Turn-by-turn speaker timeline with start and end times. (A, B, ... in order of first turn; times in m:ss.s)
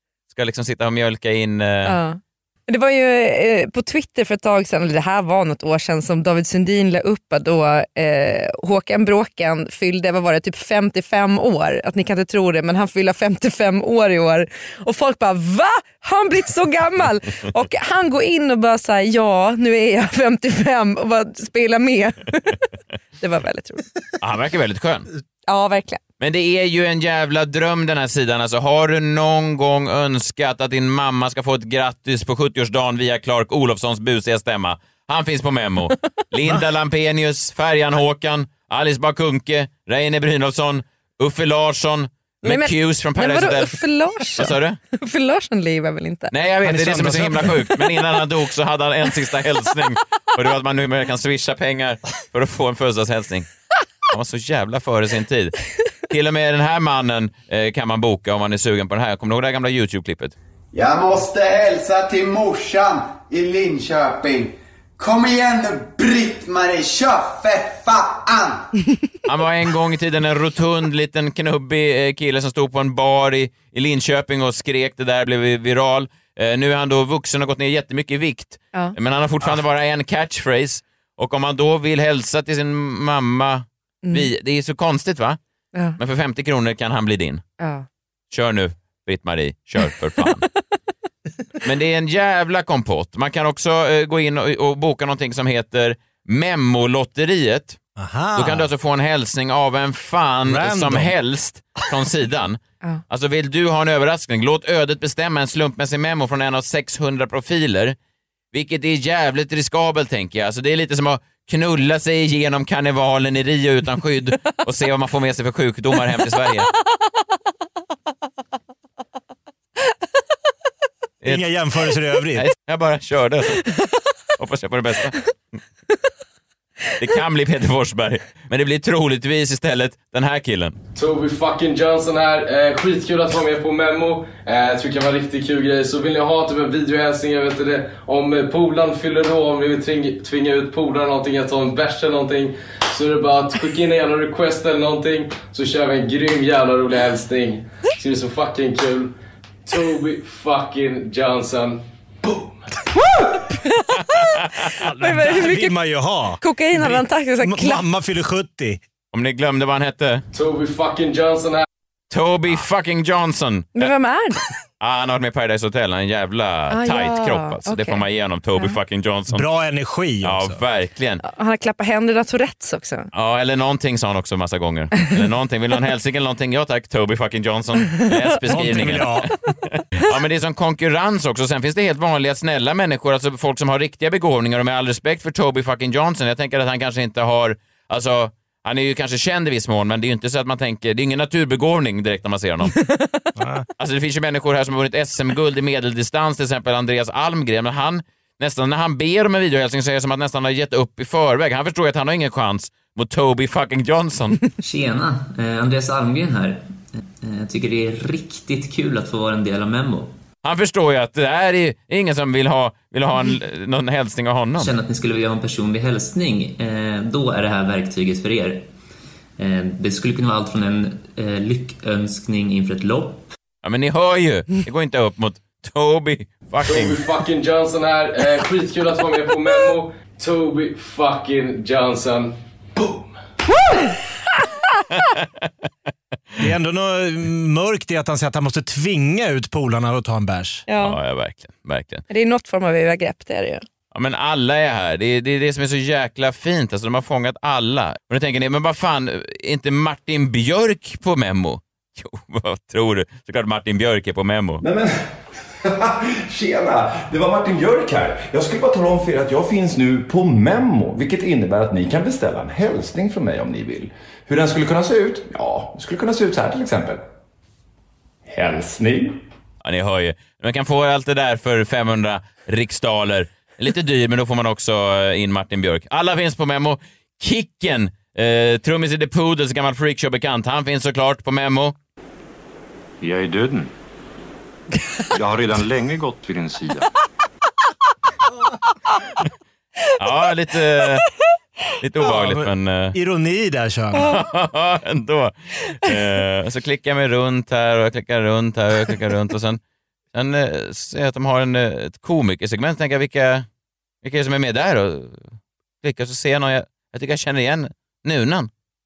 0:00.3-0:02.0 A
0:01.9-0:22.6 B
0:23.2-0:23.8 B
0:24.2-0:25.1 A
0:25.5-0:26.0 B
0:26.2-0:44.8 A
0:42.4-0:46.3 B
0:46.3-0:53.5 A
0:46.6-0:47.6 C
0:54.1-0:55.6 A
0:56.1-1:00.4 A
1:00.7-1:08.7 D
1:09.3-1:25.4 A
1:26.0-1:27.4 A
1:27.6-1:27.9 B
1:28.3-1:30.5 A
1:31.6-1:37.8 A
1:38.0-1:38.7 C
1:38.4-1:48.0 A
1:40.4-1:41.1 C
1:48.5-1:56.7 A
2:01.2-2:02.4 C
2:02.4-2:03.6 A
2:04.4-2:05.2 A
2:07.0-2:10.8 A
2:11.0-2:29.1 E
2:29.6-2:31.8 E
2:33.5-2:34.2 B
2:34.8-2:38.8 C
2:35.0-2:35.8 B
2:36.4-2:37.8 B
2:39.1-2:40.2 A
2:40.3-2:41.6 E
2:42.1-2:43.9 A
2:43.8-2:44.4 B
2:44.8-2:49.4 A
2:46.7-2:48.0 B
2:49.3-2:50.6 C
2:50.2-2:51.2 A
2:51.2-2:53.1 B
2:53.1-2:59.3 A
2:58.5-2:59.3 C
2:59.9-3:12.8 A
3:12.8-3:13.3 B
3:13.4-3:13.6 C
3:13.8-3:24.4 A
3:24.6-3:26.6 F
3:27.2-3:30.1 F
3:30.4-3:34.7 A
3:34.6-3:38.7 F
3:39.4-3:43.2 F
3:43.6-3:47.0 A
3:46.7-3:52.4 E
3:55.0-3:55.3 A
3:56.4-4:00.6 C
4:00.7-4:01.0 B
4:00.8-4:02.0 A
4:02.1-4:03.6 B
4:03.9-4:14.6 A
4:14.6-4:14.9 G
4:15.6-4:27.0 G
4:28.3-4:29.2 G
4:29.6-4:41.8 A
4:43.0-4:43.7 H
4:45.1-4:46.9 H
4:50.0-4:51.1 A
4:51.8-4:53.0 A
4:52.0-4:54.1 C
4:54.0-4:59.6 A
5:00.1-5:03.5 A
5:04.0-5:08.5 A